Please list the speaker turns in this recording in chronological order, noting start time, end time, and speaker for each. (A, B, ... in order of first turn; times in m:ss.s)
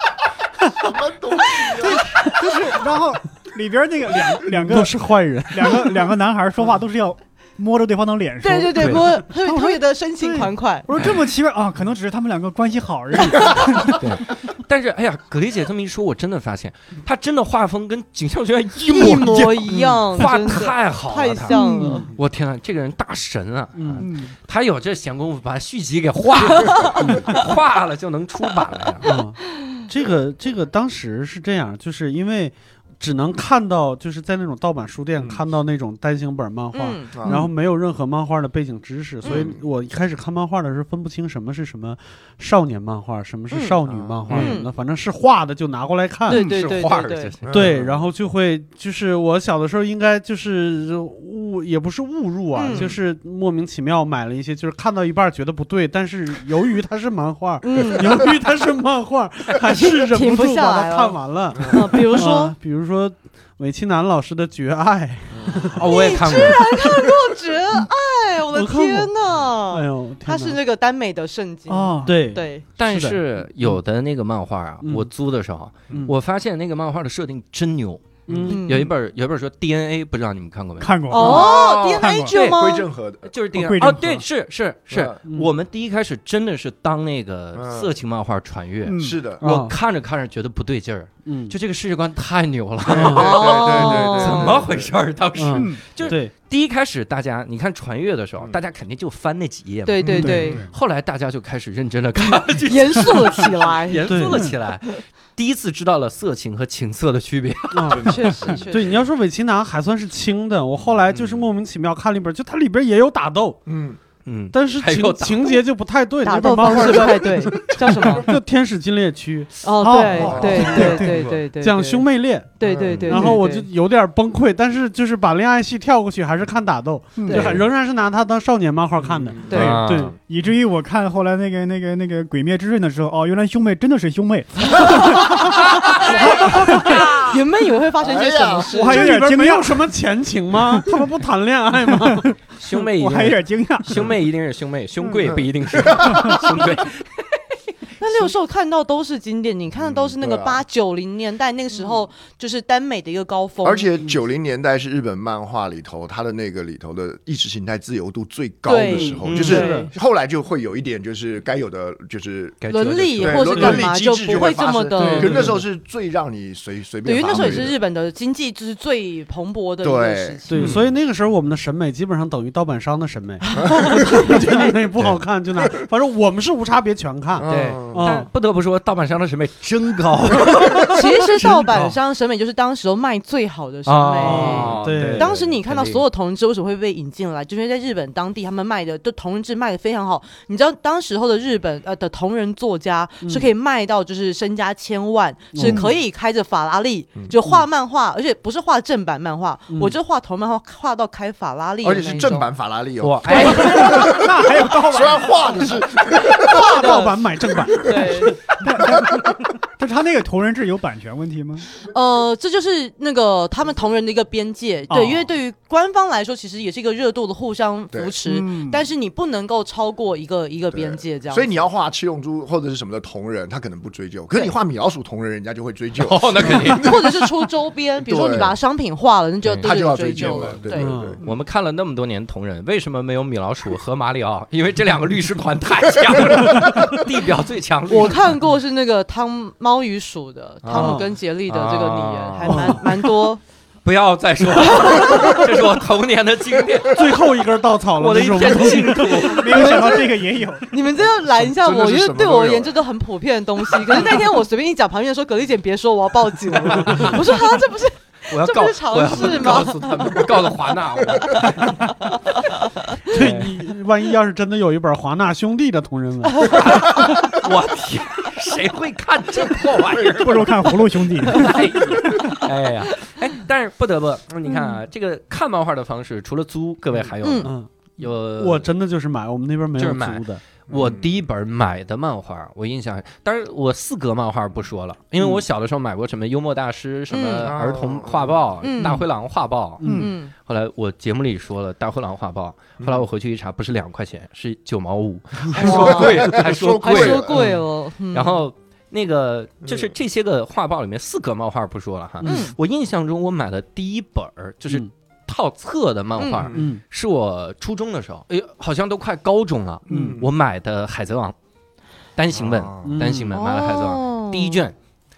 0:00.8-0:02.1 A
0:01.7-0:05.0 B
0:04.6-0:06.1 C
0:05.5-0:14.1 B
0:08.4-0:10.9 D
0:08.8-0:09.0 E
0:13.9-0:29.1 E
0:18.9-0:22.1 D
0:21.5-0:22.2 C
0:23.8-0:24.1 C
0:24.0-0:24.3 B
0:26.5-0:27.0 D
0:27.0-0:27.4 C
0:29.0-0:46.4 C
0:36.7-0:37.4 D
0:37.1-0:37.5 A
0:39.2-0:39.5 D
0:39.3-0:39.6 A
0:43.5-0:43.8 D
0:43.9-0:44.4 A
0:44.3-0:44.7 D
0:46.3-0:47.3 D
0:46.3-0:47.9 E
0:47.4-0:47.9 A
0:47.5-1:07.0 C
0:52.5-0:52.9 D
0:57.6-0:58.4 D
0:59.6-1:02.6 D
1:05.3-1:05.8 A
1:05.7-1:06.7 E
1:05.8-1:12.6 D
1:08.5-1:09.1 C
1:09.7-1:10.6 C
1:11.7-1:12.3 B
1:12.1-1:13.8 C
1:12.8-1:21.5 E
1:14.8-1:15.1 C
1:15.9-1:16.2 C
1:18.3-1:18.6 C
1:18.4-1:18.9 D
1:20.8-1:22.3 B
1:21.1-1:22.9 D
1:21.2-1:23.3 A
1:22.3-1:48.6 E
1:23.5-1:24.2 B
1:24.9-1:25.2 A
1:27.6-1:27.9 A
1:28.8-1:29.2 B
1:29.0-1:29.4 A
1:29.4-1:29.8 C
1:31.3-1:31.6 C
1:32.9-1:35.0 A
1:32.9-1:33.4 C
1:33.0-1:34.6 D
1:35.4-1:36.3 C
1:35.5-1:35.8 B
1:39.9-1:40.6 D
1:40.1-1:40.4 A
1:40.1-1:40.7 B
1:42.2-1:44.2 D
1:44.1-1:44.4 C
1:47.7-1:48.1 C
1:47.9-1:48.6 A
1:48.0-1:49.0 D
1:48.7-1:53.6 C
1:51.1-1:51.5 E
1:53.7-1:54.0 A
1:54.2-1:55.6 E
1:54.5-2:01.1 C
1:56.2-1:58.3 D
1:59.6-2:03.7 D
1:59.8-2:01.2 B
2:00.2-2:01.4 A
2:01.6-2:02.5 C
2:02.6-2:03.2 A
2:03.1-2:10.2 C
2:07.2-2:07.5 B
2:07.3-2:07.6 D
2:07.3-2:07.6 E
2:09.0-2:09.6 A
2:09.5-2:09.8 D
2:09.5-2:17.2 B
2:09.5-2:10.2 E
2:14.8-2:15.4 D
2:15.6-2:16.2 E
2:16.0-2:19.2 D
2:16.7-2:17.3 E
2:18.0-2:18.7 A
2:18.7-2:19.9 B
2:18.8-2:22.4 C
2:20.7-2:21.1 B
2:21.8-2:24.1 B
2:22.6-2:27.4 E
2:25.2-2:26.7 A
2:26.0-2:26.4 B
2:28.0-2:33.9 D
2:29.9-2:30.6 A
2:33.6-2:42.6 A
2:38.6-2:39.9 D
2:38.9-2:39.9 C
2:39.2-2:39.7 E
2:42.6-2:43.7 E
2:42.7-2:45.6 D
2:43.2-2:47.8 A
2:43.5-2:43.9 C
2:45.0-2:45.6 C
2:47.0-2:50.8 D
2:47.4-2:47.7 E
2:49.8-2:50.4 A
2:50.5-2:58.3 C
2:50.5-2:50.9 E
2:53.5-2:54.7 D
2:53.6-2:54.1 A
2:57.3-2:58.1 A
2:57.5-3:01.5 E
3:00.9-3:22.5 D
3:01.4-3:02.0 C
3:03.9-3:06.0 E
3:04.2-3:05.3 C
3:13.2-3:13.5 C
3:15.5-3:15.9 C
3:15.6-3:15.9 B
3:21.8-3:27.0 A
3:23.0-3:23.8 E
3:23.3-3:24.0 D
3:23.3-3:25.8 B
3:26.4-3:28.4 D
3:26.4-3:28.4 C
3:28.6-3:31.7 B
3:28.8-3:29.3 A
3:31.8-3:41.6 D
3:38.2-3:38.8 B
3:40.7-3:47.2 A
3:46.0-3:47.0 E
3:46.8-3:51.0 D
3:48.0-3:48.6 A
3:49.4-3:50.5 E
3:49.6-3:51.2 A
3:50.7-3:51.2 C
3:51.2-3:58.3 E
3:56.3-3:56.9 A
3:57.9-4:03.4 D
4:00.6-4:02.9 E
4:00.7-4:01.1 C
4:02.4-4:02.9 C
4:03.8-4:07.2 E
4:04.6-4:05.4 D
4:06.9-4:09.7 C
4:08.0-4:09.9 E
4:09.3-4:10.7 B
4:09.5-4:09.9 D
4:10.7-4:20.3 D
4:11.0-4:12.8 A
4:16.8-4:17.2 C
4:16.8-4:17.2 E
4:18.3-4:21.8 E
4:21.8-4:23.0 D
4:23.1-4:23.6 E
4:23.1-4:26.6 C
4:26.3-4:26.9 D
4:26.4-4:30.7 E
4:29.7-4:30.3 A
4:30.2-4:32.2 B
4:31.2-4:38.7 E
4:37.2-4:37.5 D
4:37.4-4:40.4 C
4:39.8-4:57.5 E
4:40.7-4:41.1 A
4:47.1-4:47.5 D
4:47.4-4:48.4 A
4:48.6-4:49.0 D
4:49.8-4:50.1 C
4:49.8-4:50.1 B
4:49.9-4:50.3 D
4:52.8-4:53.0 A
4:55.5-4:57.5 A
4:55.5-4:58.4 D
4:58.1-5:11.4 E
4:59.6-4:59.9 A
5:02.2-5:02.5 C
5:02.2-5:02.6 D
5:06.2-5:06.5 D
5:06.5-5:06.8 C
5:09.9-5:10.3 A
5:09.9-5:10.2 C
5:12.2-5:14.8 E
5:12.3-5:13.0 A
5:12.8-5:13.3 C
5:13.3-5:14.6 D